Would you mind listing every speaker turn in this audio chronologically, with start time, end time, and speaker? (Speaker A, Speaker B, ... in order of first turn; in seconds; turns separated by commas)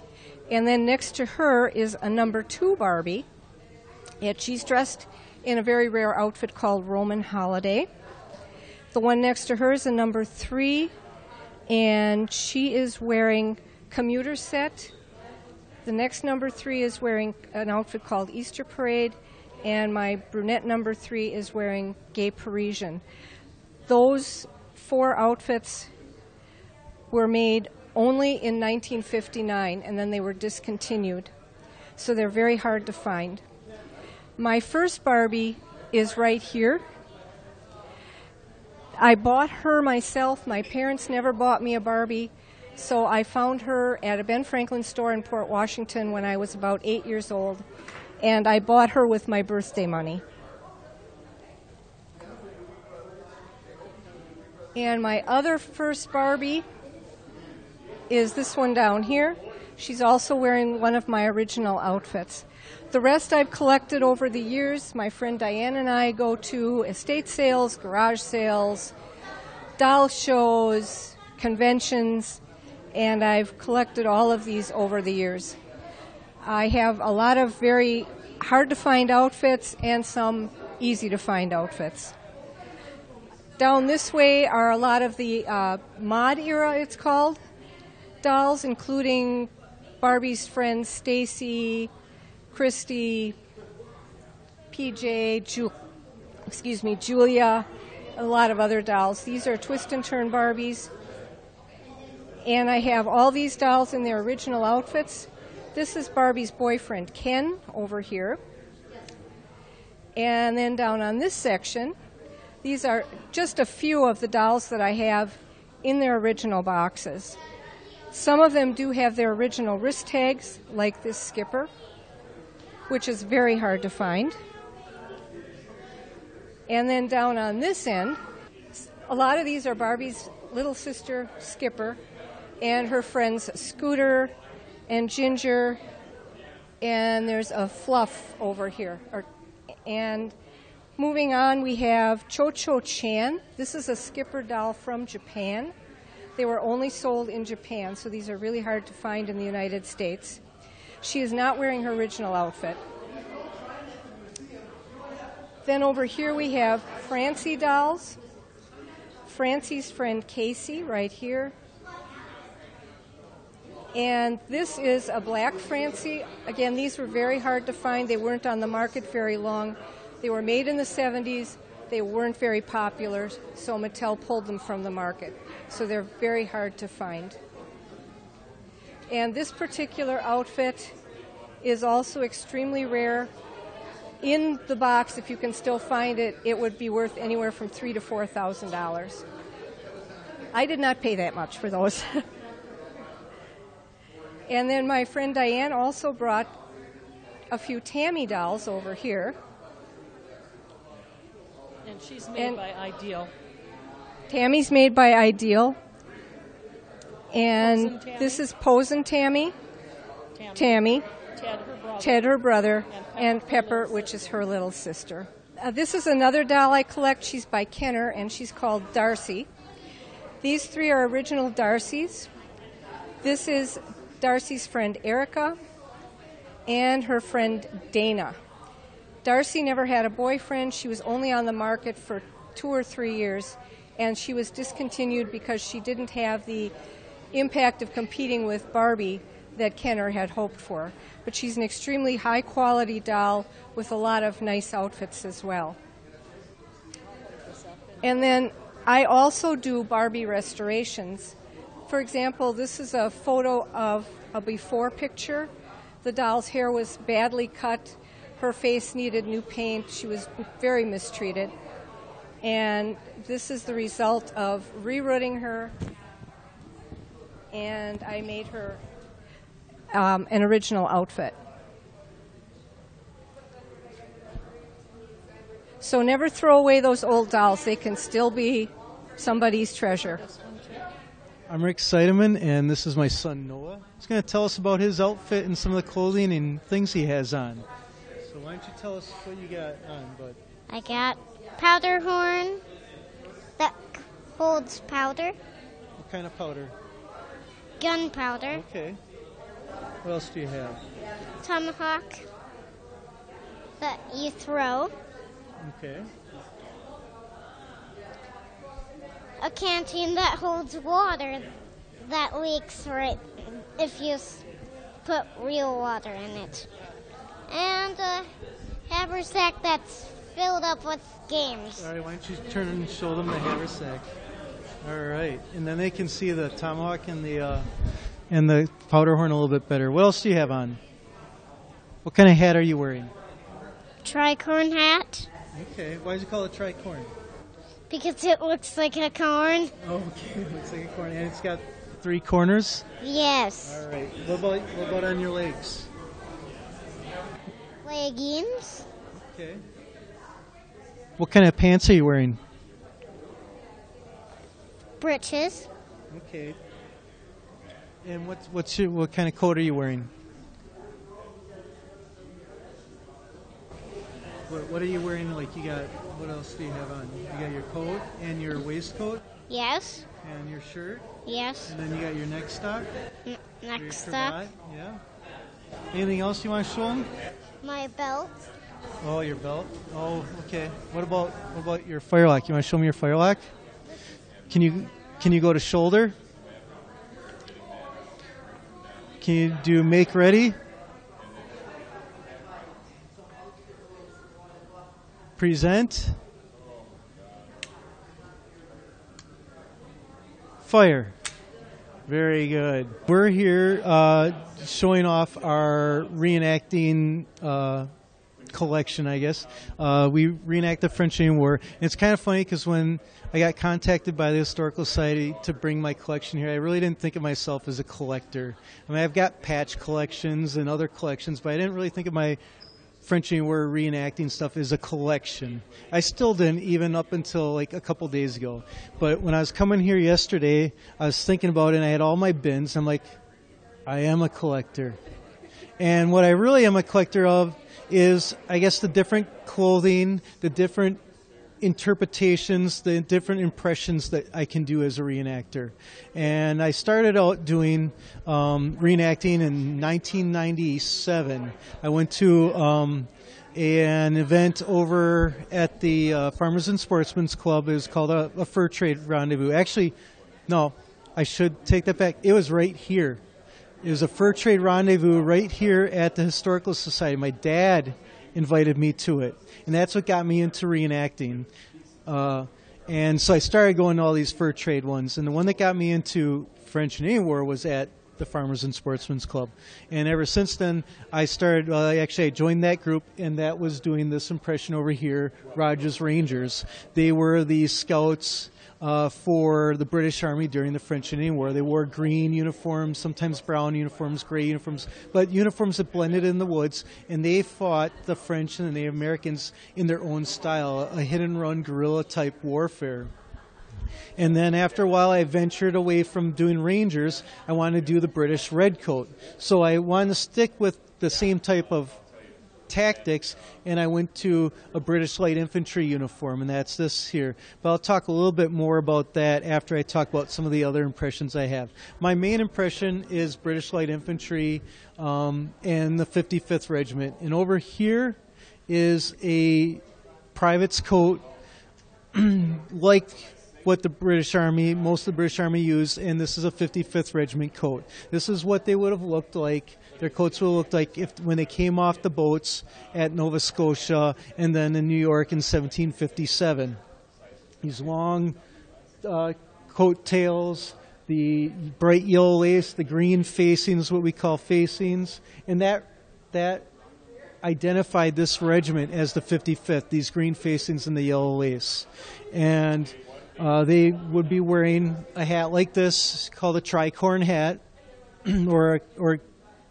Speaker A: 0.5-3.3, Speaker A: 4.2-7.9, Speaker A: 8.9-10.9, Speaker A: 11.7-14.9, Speaker A: 15.8-23.0, Speaker A: 23.9-25.9, Speaker A: 27.1-31.3, Speaker A: 32.0-33.4, Speaker A: 34.4-36.8, Speaker A: 39.0-47.6, Speaker A: 48.2-50.2, Speaker A: 54.7-56.6, Speaker A: 58.1-68.9, Speaker A: 69.8-72.4, Speaker A: 72.9-75.5, Speaker A: 76.4-82.1, Speaker A: 83.6-87.4, Speaker A: 88.2-91.9, Speaker A: 92.5-93.3, Speaker A: 94.7-95.7, Speaker A: 96.5-97.7, Speaker A: 98.2-100.9, Speaker A: 102.4-108.4, Speaker A: 110.2-111.9, Speaker A: 112.6-117.4, Speaker A: 118.1-121.7, Speaker A: 122.9-124.4, Speaker A: 126.7-128.2, Speaker A: 129.1-132.0, Speaker A: 132.6-134.3, Speaker A: 134.9-135.8, Speaker A: 136.8-139.2, Speaker A: 139.8-140.3, Speaker A: 141.0-145.7, Speaker A: 146.4-150.4, Speaker A: 151.0-152.8, Speaker A: 155.6-158.2, Speaker A: 159.2-161.5, Speaker A: 163.9-177.4, Speaker A: 179.1-180.9, Speaker A: 181.6-183.3, Speaker A: 184.2-189.2, Speaker A: 190.5-192.2, Speaker A: 194.5-196.5, Speaker A: 197.5-199.3, Speaker B: 201.8-203.3, Speaker A: 202.3-202.6, Speaker A: 204.3-205.8, Speaker A: 207.3-209.6, Speaker B: 207.6-208.4, Speaker B: 210.4-210.8, Speaker A: 210.5-211.0, Speaker B: 211.4-214.3, Speaker A: 212.0-219.5, Speaker A: 220.4-222.3, Speaker A: 223.2-225.6, Speaker A: 226.7-228.4, Speaker A: 229.2-236.7, Speaker A: 237.3-245.8, Speaker B: 247.5-248.0, Speaker A: 248.0-251.3, Speaker A: 251.9-255.5, Speaker A: 256.0-261.5, Speaker A: 262.4-265.7, Speaker A: 267.5-268.8, Speaker A: 269.9-271.3, Speaker A: 275.8-280.2, Speaker B: 280.2-280.8, Speaker C: 281.5-287.6, Speaker C: 288.2-290.4, Speaker D: 290.7-292.6, Speaker D: 293.6-295.3, Speaker C: 296.0-296.7, Speaker D: 297.8-298.6, Speaker C: 298.5-299.0, Speaker C: 300.0-300.8, Speaker D: 301.4-302.2, Speaker D: 303.8-304.9, Speaker C: 305.6-306.1, Speaker D: 309.4-311.4, Speaker D: 312.0-314.4, Speaker D: 315.0-316.7, Speaker D: 317.5-318.3, Speaker D: 318.9-321.9, Speaker C: 321.8-324.0, Speaker C: 324.8-327.7, Speaker C: 328.3-330.8, Speaker C: 332.0-333.1, Speaker D: 334.0-335.3, Speaker C: 335.5-337.1, Speaker D: 337.9-339.7, Speaker C: 339.8-342.8, Speaker D: 343.0-343.8, Speaker C: 343.6-345.9, Speaker D: 347.8-348.8, Speaker C: 349.3-349.6, Speaker C: 351.2-352.4, Speaker D: 355.0-355.7, Speaker C: 356.1-356.6, Speaker C: 358.0-360.1, Speaker C: 364.5-369.2, Speaker D: 369.5-370.0, Speaker C: 370.2-371.1, Speaker D: 371.2-371.8, Speaker C: 371.7-372.9, Speaker D: 373.3-374.4, Speaker C: 373.7-375.0, Speaker C: 375.9-377.1, Speaker D: 377.6-378.3, Speaker C: 379.0-383.4, Speaker C: 384.5-386.1, Speaker C: 389.2-390.6, Speaker C: 395.4-396.2, Speaker C: 400.6-401.1, Speaker C: 402.1-407.9, Speaker C: 408.5-422.4, Speaker C: 423.0-433.1, Speaker C: 433.9-435.0, Speaker C: 435.8-441.0, Speaker C: 441.6-459.9, Speaker C: 460.5-463.2, Speaker C: 463.8-471.5, Speaker C: 472.1-503.1, Speaker C: 504.2-512.0, Speaker C: 512.7-528.2, Speaker C: 528.7-529.8, Speaker C: 530.3-531.2, Speaker C: 532.1-546.8, Speaker C: 547.6-548.4, Speaker C: 549.0-556.7, Speaker C: 557.4-567.6, Speaker C: 568.2-569.2